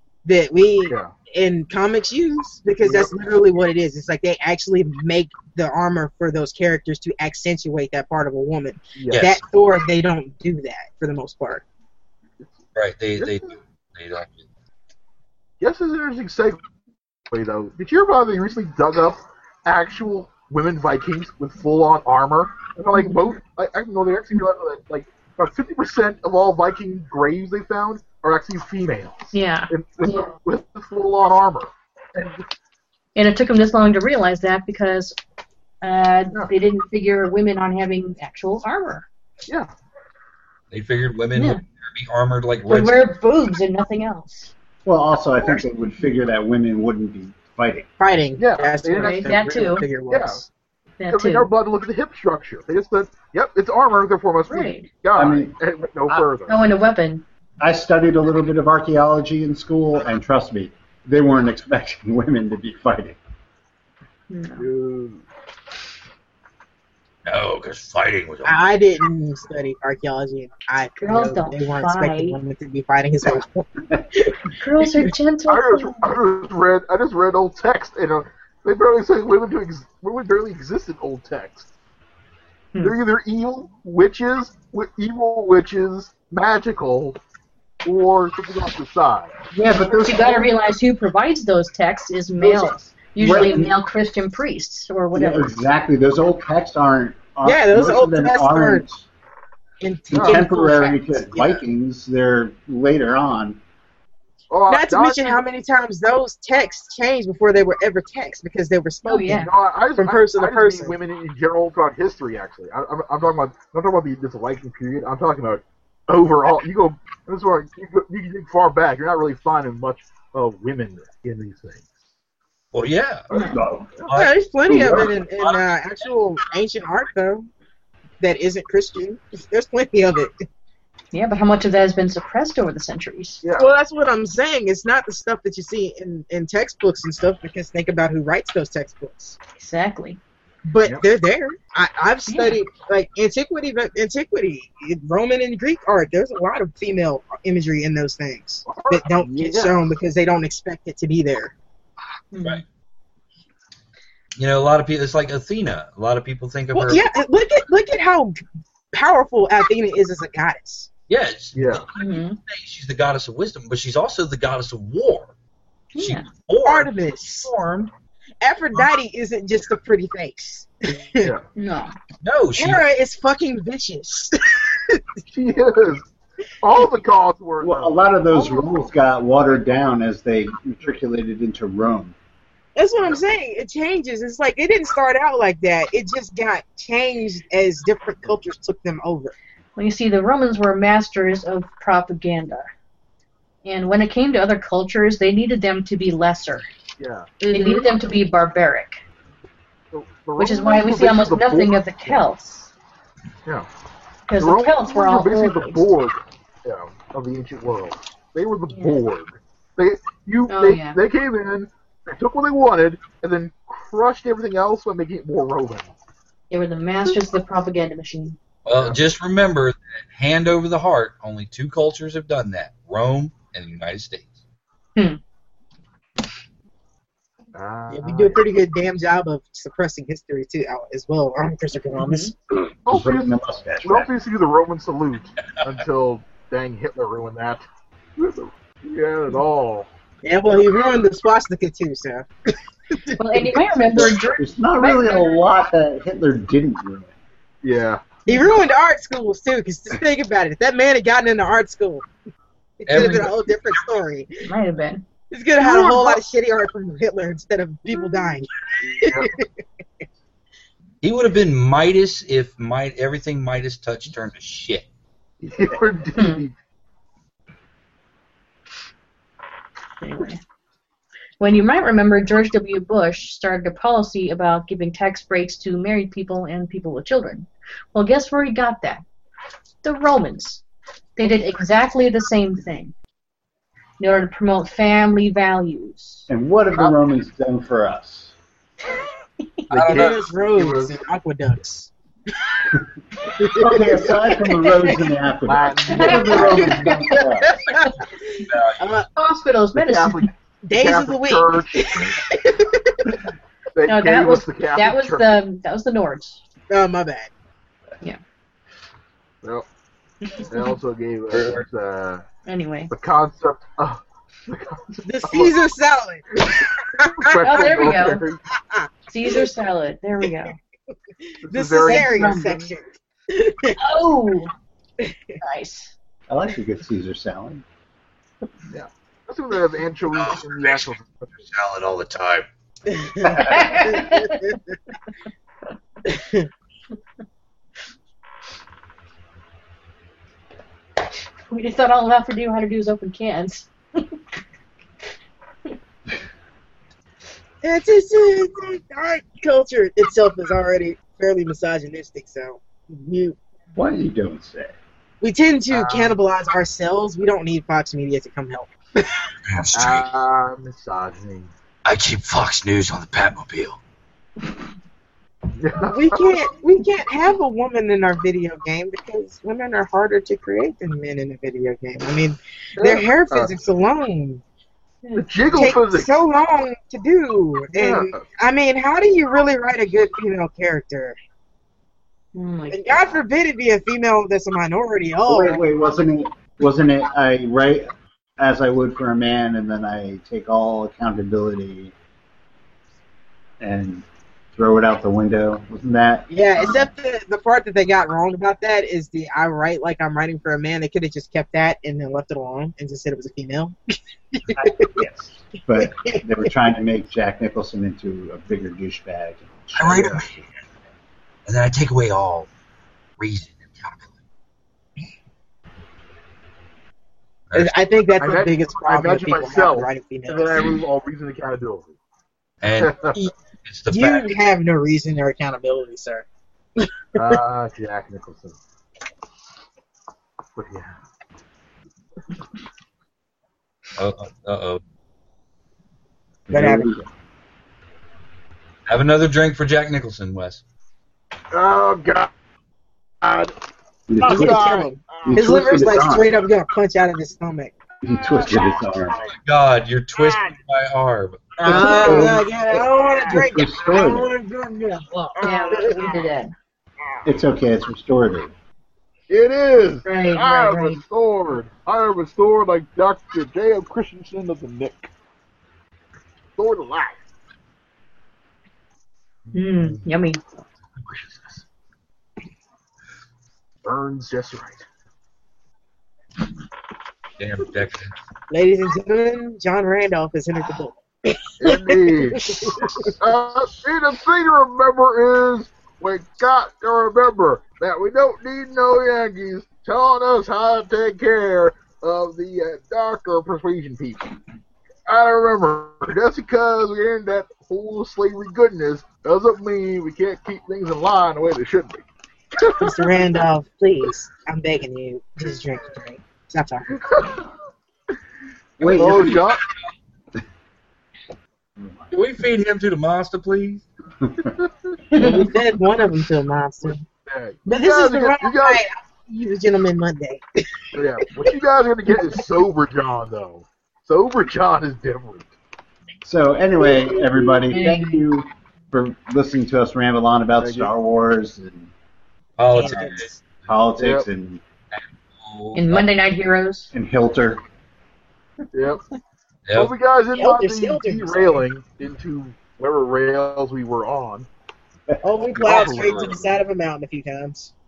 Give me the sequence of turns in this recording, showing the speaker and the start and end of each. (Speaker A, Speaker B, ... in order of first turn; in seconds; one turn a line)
Speaker A: 0.2-11.6
Speaker B: 0.9-1.1
Speaker B: 2.8-3.1
Speaker B: 9.0-9.3
Speaker C: 9.1-9.4
Speaker C: 12.8-14.4
Speaker B: 15.6-16.7
Speaker B: 17.3-31.7
Speaker D: 22.9-23.2
Speaker D: 29.3-30.3
Speaker D: 33.1-35.2
Speaker D: 35.8-39.1
Speaker C: 40.7-43.0
Speaker D: 41.4-41.6
Speaker D: 42.7-44.5
Speaker E: 44.9-47.9
Speaker A: 48.0-50.5
Speaker B: 48.4-50.4
Speaker D: 49.0-49.9
Speaker D: 51.0-51.5
Speaker B: 51.1-56.6
Speaker D: 54.5-54.9
Speaker E: 55.1-55.5
Speaker D: 56.5-57.2
Speaker E: 57.6-63.2
Speaker D: 64.3-64.7
Speaker B: 64.6-65.2
Speaker C: 67.3-68.6
Speaker A: 68.5-75.0
Speaker D: 71.0-72.4
Speaker D: 74.6-76.0
Speaker B: 75.5-81.7
Speaker B: 82.8-87.2
Speaker B: 87.8-89.4
Speaker E: 89.5-90.5
Speaker D: 90.0-95.5
Speaker E: 93.2-93.8
Speaker E: 95.1-99.1
Speaker A: 97.4-98.8
Speaker A: 99.8-101.6
Speaker E: 100.1-103.6
Speaker B: 100.1-100.4
Speaker B: 104.5-105.4
Speaker A: 104.7-111.0
Speaker D: 109.1-109.5
Speaker B: 109.3-121.8
Speaker C: 122.7-123.3
Speaker D: 123.3-123.6
Speaker E: 123.3-123.9
Speaker A: 124.1-127.5
Speaker C: 124.1-125.8
Speaker E: 124.7-125.1
Speaker A: 128.2-130.4
Speaker D: 131.1-133.4
Speaker B: 133.4-133.7
Speaker A: 133.6-139.4
Speaker D: 139.6-140.2
Speaker A: 140.7-151.5
Speaker D: 142.3-142.6
Speaker B: 148.7-149.8
Speaker D: 152.3-152.6
Speaker C: 154.4-157.0
Speaker A: 156.7-158.4
Speaker A: 158.9-160.9
Speaker C: 161.1-165.3
Speaker B: 161.5-161.9
Speaker D: 161.9-162.4
Speaker D: 165.9-166.3
Speaker C: 166.0-166.9
Speaker A: 166.6-167.9
Speaker A: 168.4-171.3
Speaker B: 171.2-171.5
Speaker D: 171.6-171.9
Speaker C: 172.2-172.8
Speaker A: 172.6-175.0
Speaker B: 175.3-176.1
Speaker B: 176.6-178.8
Speaker E: 177.6-182.1
Speaker A: 182.8-189.3
Speaker D: 189.8-192.7
Speaker D: 193.6-196.7
Speaker B: 197.0-197.3
Speaker A: 197.4-198.0
Speaker D: 197.5-199.0
Speaker B: 199.9-202.2
Speaker D: 200.4-202.7
Speaker D: 204.3-205.8
Speaker B: 204.4-215.9
Speaker D: 208.7-209.0
Speaker D: 210.5-211.0
Speaker D: 216.5-218.4
Speaker C: 218.6-224.4
Speaker B: 227.5-228.4
Speaker A: 227.9-232.3
Speaker D: 232.0-232.3
Speaker B: 232.9-233.3
Speaker E: 232.9-234.1
Speaker B: 233.8-237.6
Speaker B: 238.2-239.9
Speaker A: 240.2-242.3
Speaker A: 242.9-243.2
Speaker D: 243.2-245.3
Speaker E: 243.9-247.1
Speaker B: 247.6-248.1
Speaker A: 248.3-252.1
Speaker A: 252.8-254.5
Speaker C: 252.9-253.8
Speaker D: 252.9-253.3
Speaker D: 254.4-255.1
Speaker A: 255.3-259.5
Speaker D: 255.6-256.2
Speaker B: 258.8-259.3
Speaker C: 261.0-264.9
Speaker B: 265.4-266.5
Speaker D: 266.1-266.4
Speaker D: 270.0-270.4
Speaker D: 271.4-279.0
Speaker D: 279.8-280.6
Speaker D: 281.2-282.9
Speaker D: 284.0-286.3
Speaker E: 286.3-288.4
Speaker B: 289.7-291.0
Speaker C: 289.7-290.2
Speaker A: 289.9-291.9
Speaker E: 293.4-297.5
Speaker A: 293.4-294.0
Speaker D: 294.6-294.9
Speaker B: 295.5-296.9
Speaker D: 295.9-297.2
Speaker A: 296.3-299.1
Speaker C: 298.5-299.0
Speaker D: 299.2-300.3
Speaker B: 299.8-302.2
Speaker A: 300.6-303.1
Speaker B: 303.7-305.4
Speaker D: 303.9-306.4
Speaker A: 306.7-307.3
Speaker D: 310.2-310.7
Speaker B: 310.5-312.3
Speaker D: 312.5-312.9
Speaker B: 312.9-315.5
Speaker A: 315.0-319.4
Speaker B: 317.1-318.4
Speaker D: 317.4-318.3
Speaker D: 319.1-320.6
Speaker A: 320.2-320.5
Speaker A: 321.3-323.8
Speaker B: 321.4-322.7
Speaker D: 321.8-322.6
Speaker D: 323.8-324.5
Speaker A: 325.0-325.4
Speaker D: 325.4-325.9
Speaker E: 326.3-327.6
Speaker B: 328.7-331.3
Speaker C: 330.1-332.5
Speaker A: 332.9-334.6
Speaker E: 333.3-333.7
Speaker D: 333.5-334.5
Speaker A: 336.1-336.5
Speaker D: 341.5-344.0
Speaker A: 347.6-353.4
Speaker E: 353.8-354.7
Speaker A: 355.2-359.0
Speaker B: 355.7-356.2
Speaker C: 359.5-360.1
Speaker B: 359.7-361.5
Speaker C: 361.9-363.8
Speaker B: 365.6-366.2
Speaker A: 365.9-374.4
Speaker B: 372.8-373.5
Speaker D: 375.0-375.8
Speaker B: 375.2-376.2
Speaker A: 375.6-381.2
Speaker B: 377.8-378.3
Speaker D: 382.3-383.2
Speaker A: 382.7-385.6
Speaker E: 385.3-391.9
Speaker E: 393.6-396.9
Speaker A: 396.3-403.8
Speaker A: 404.3-405.0
Speaker E: 404.5-410.4
Speaker A: 405.8-406.2
Speaker C: 409.8-410.4
Speaker B: 409.9-410.2
Speaker C: 411.5-412.5
Speaker C: 413.2-414.1
Speaker A: 417.6-420.8
Speaker B: 418.2-421.9
Speaker C: 422.6-423.1
Speaker B: 422.8-423.2
Speaker C: 423.6-424.3
Speaker A: 423.9-426.3
Speaker A: 427.1-427.4
Speaker B: 427.2-428.6
Speaker B: 430.6-431.0
Speaker C: 434.0-434.8
Speaker E: 436.5-437.1
Speaker A: 436.5-437.0
Speaker C: 438.9-440.6
Speaker B: 441.5-442.3
Speaker B: 443.2-443.5
Speaker E: 444.1-444.7
Speaker B: 444.2-445.5
Speaker A: 444.3-447.7
Speaker E: 445.2-446.3
Speaker E: 448.0-449.2
Speaker C: 449.4-451.6
Speaker A: 451.6-456.2
Speaker E: 451.6-454.3
Speaker B: 451.7-452.4
Speaker D: 455.4-456.5
Speaker B: 455.5-456.0
Speaker E: 457.2-458.5
Speaker B: 459.3-465.1
Speaker D: 460.0-461.0
Speaker B: 466.6-467.2
Speaker B: 469.5-470.0
Speaker D: 469.5-470.4
Speaker B: 471.0-471.6
Speaker B: 473.8-474.9
Speaker C: 477.4-478.1
Speaker A: 478.5-483.1
Speaker B: 481.6-494.3
Speaker B: 495.1-502.0
Speaker B: 502.6-503.2
Speaker A: 502.8-507.0
Speaker B: 507.1-507.4
Speaker E: 508.8-509.5
Speaker B: 508.8-509.6
Speaker E: 511.8-512.1
Speaker C: 512.1-513.9
Speaker D: 515.1-515.5
Speaker A: 515.1-517.0
Speaker B: 517.3-518.8
Speaker A: 517.7-521.5
Speaker B: 521.0-525.5
Speaker E: 526.2-531.9
Speaker D: 527.7-528.2
Speaker B: 530.6-530.9
Speaker C: 532.6-533.4
Speaker A: 532.7-533.4
Speaker E: 533.7-534.6
Speaker B: 534.0-534.3
Speaker C: 534.9-536.1
Speaker D: 535.7-536.9
Speaker E: 536.9-537.6
Speaker B: 538.7-539.0
Speaker C: 539.7-539.9
Speaker B: 539.8-544.5
Speaker A: 540.4-541.6
Speaker A: 545.2-547.7
Speaker B: 545.6-546.6